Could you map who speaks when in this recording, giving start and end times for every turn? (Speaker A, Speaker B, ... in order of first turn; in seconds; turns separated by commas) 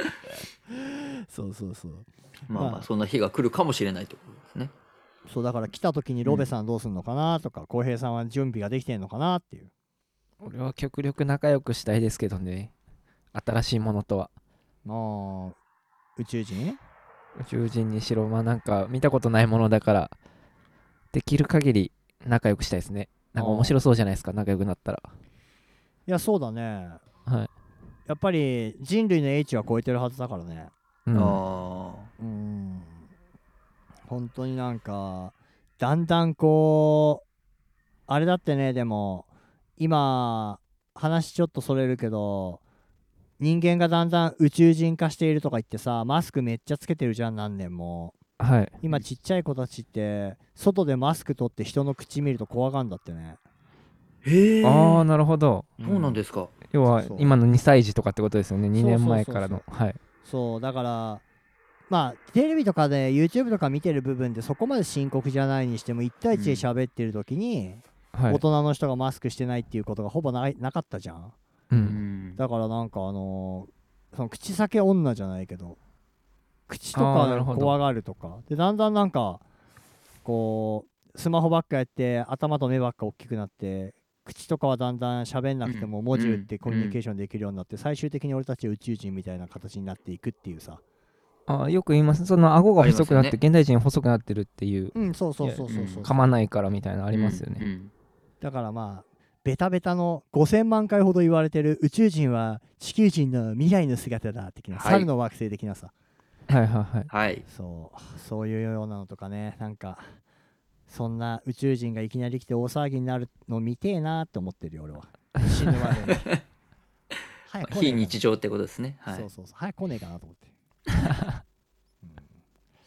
Speaker A: 0.9-2.9, Speaker B: 2.5-4.7, Speaker A: 5.2-9.7, Speaker C: 10.4-12.7, Speaker C: 13.3-14.3, Speaker A: 14.8-15.6, Speaker A: 16.2-16.8, Speaker C: 17.4-20.1, Speaker C: 21.1-25.1, Speaker A: 23.4-23.8, Speaker A: 26.1-27.0, Speaker C: 27.2-27.5, Speaker A: 28.1-30.7, Speaker C: 31.1-31.4, Speaker B: 31.1-32.1, Speaker A: 32.2-33.0, Speaker A: 34.1-37.2, Speaker A: 38.1-39.3, Speaker A: 39.8-42.6, Speaker A: 43.4-48.2, Speaker C: 48.4-48.8, Speaker A: 48.8-53.4, Speaker B: 54.2-55.0, Speaker C: 54.6-55.8, Speaker A: 55.8-56.2, Speaker B: 55.8-56.5, Speaker C: 56.6-60.0, Speaker A: 57.0-57.3, Speaker A: 58.7-59.6, Speaker A: 60.2-61.2, Speaker A: 61.9-71.3, Speaker B: 66.3-66.7, Speaker C: 68.1-68.4, Speaker C: 71.7-72.0, Speaker B: 71.8-72.4, Speaker A: 72.4-75.8, Speaker A: 76.7-79.4, Speaker C: 76.9-77.8, Speaker A: 80.2-90.8, Speaker B: 85.6-87.0, Speaker C: 91.5-97.7, Speaker B: 92.8-93.4, Speaker A: 94.9-96.1, Speaker B: 95.7-96.1, Speaker B: 97.1-97.9, Speaker A: 98.4-105.9, Speaker B: 104.7-105.1, Speaker C: 106.5-107.1, Speaker B: 107.1-107.4, Speaker A: 107.5-110.2, Speaker A: 110.9-116.3, Speaker A: 117.5-118.2, Speaker B: 117.6-119.3, Speaker A: 119.1-120.5, Speaker A: 122.0-122.3